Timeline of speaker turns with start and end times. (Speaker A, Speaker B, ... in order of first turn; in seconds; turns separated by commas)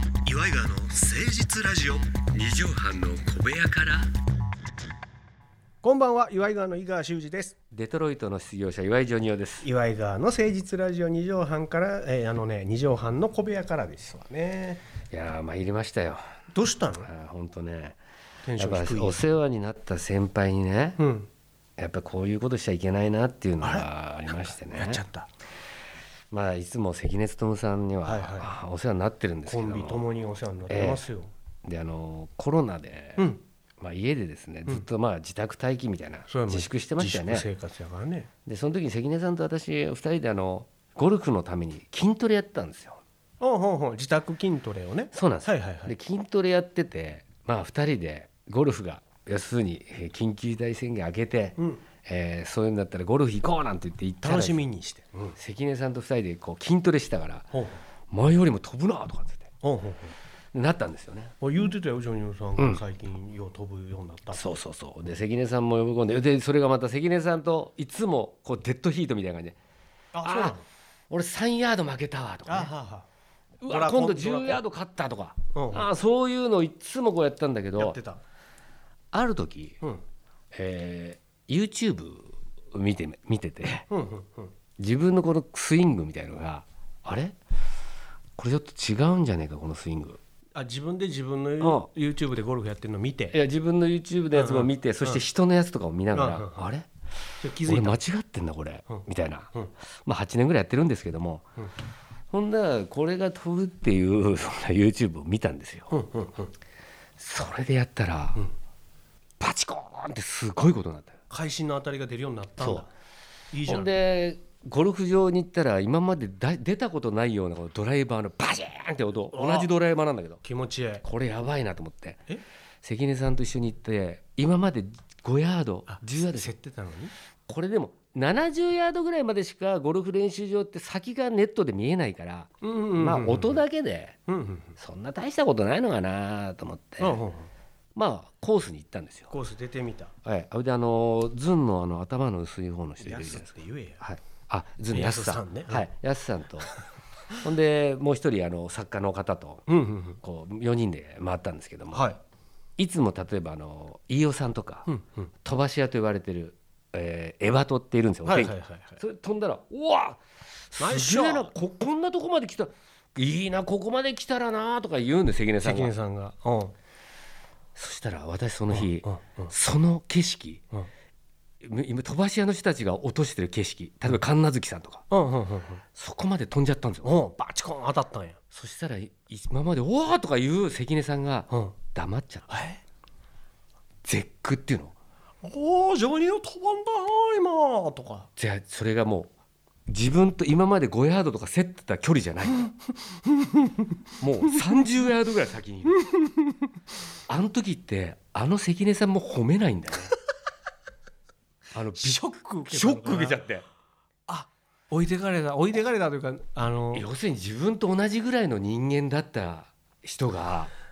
Speaker A: 0.2-2.0, Speaker B: 1.9-4.1, Speaker A: 5.8-7.6, Speaker B: 7.7-9.7, Speaker A: 9.6-14.8, Speaker B: 15.1-16.2, Speaker A: 16.5-17.1, Speaker B: 17.0-18.0, Speaker A: 18.4-19.2, Speaker B: 18.6-21.0, Speaker A: 21.0-21.3, Speaker B: 21.8-25.0, Speaker A: 23.6-23.9, Speaker A: 24.4-25.3, Speaker B: 26.3-30.0, Speaker A: 28.0-28.5, Speaker A: 29.5-31.3, Speaker B: 30.7-31.0, Speaker B: 31.6-37.5, Speaker A: 36.3-38.3, Speaker B: 38.5-43.0, Speaker A: 43.4-45.9, Speaker B: 45.1-54.6, Speaker A: 51.6-51.8, Speaker A: 54.2-55.4, Speaker B: 55.4-57.5, Speaker A: 57.5-57.8, Speaker B: 58.1-59.5, Speaker A: 59.6-60.1, Speaker B: 60.5-61.4, Speaker A: 61.4-64.5, Speaker B: 62.6-62.8, Speaker B: 64.3-69.6, Speaker A: 70.1-70.6, Speaker B: 70.2-70.6, Speaker B: 71.1-72.7, Speaker A: 72.5-73.1, Speaker B: 73.6-78.0, Speaker A: 73.7-74.6, Speaker A: 75.5-75.9, Speaker A: 77.8-78.2, Speaker B: 79.1-79.8, Speaker B: 80.5-83.9, Speaker A: 83.9-84.5, Speaker B: 84.8-87.3, Speaker B: 88.4-90.2, Speaker A: 90.5-93.4, Speaker B: 91.6-91.9, Speaker B: 93.3-96.9, Speaker A: 94.3-95.2, Speaker A: 96.1-96.7, Speaker A: 97.4-98.0, Speaker B: 97.6-99.5, Speaker A: 98.9-99.7, Speaker B: 100.0-101.4, Speaker B: 102.3-105.9, Speaker A: 105.9-106.5, Speaker B: 107.2-108.4, Speaker B: 109.4-111.2, Speaker A: 111.3-112.9, Speaker B: 112.6-112.8, Speaker A: 113.5-114.0, Speaker B: 113.7-120.4, Speaker A: 119.3-119.7, Speaker A: 120.4-121.0, Speaker B: 121.0-122.2, Speaker B: 122.8-126.5, Speaker A: 125.9-127.1, Speaker B: 127.5-134.2, Speaker A: 132.6-133.6, Speaker A: 134.3-134.8, Speaker B: 134.8-137.2, Speaker A: 137.0-137.5, Speaker B: 137.9-139.3, Speaker A: 139.3-140.1, Speaker B: 140.2-146.7, Speaker A: 143.0-144.0, Speaker A: 144.9-145.8, Speaker B: 147.4-149.7, Speaker A: 149.7-150.2, Speaker B: 150.2-152.1, Speaker A: 151.9-152.2, Speaker B: 152.8-154.9, Speaker A: 154.8-155.1, Speaker B: 155.4-165.9, Speaker A: 158.2-159.0, Speaker A: 160.8-161.5, Speaker A: 165.6-166.8, Speaker B: 167.8-170.6, Speaker A: 168.7-169.5, Speaker B: 171.6-175.0, Speaker A: 175.1-175.8, Speaker B: 175.9-177.1, Speaker A: 177.0-178.4, Speaker B: 178.5-182.6, Speaker A: 181.5-181.8, Speaker A: 182.5-182.8, Speaker B: 184.0-184.9, Speaker A: 185.4-188.3, Speaker B: 188.3-189.3, Speaker B: 189.9-192.7, Speaker B: 194.2-196.0, Speaker B: 197.3-200.1, Speaker B: 201.7-203.6, Speaker A: 201.9-203.4, Speaker A: 204.3-207.1, Speaker B: 206.9-210.7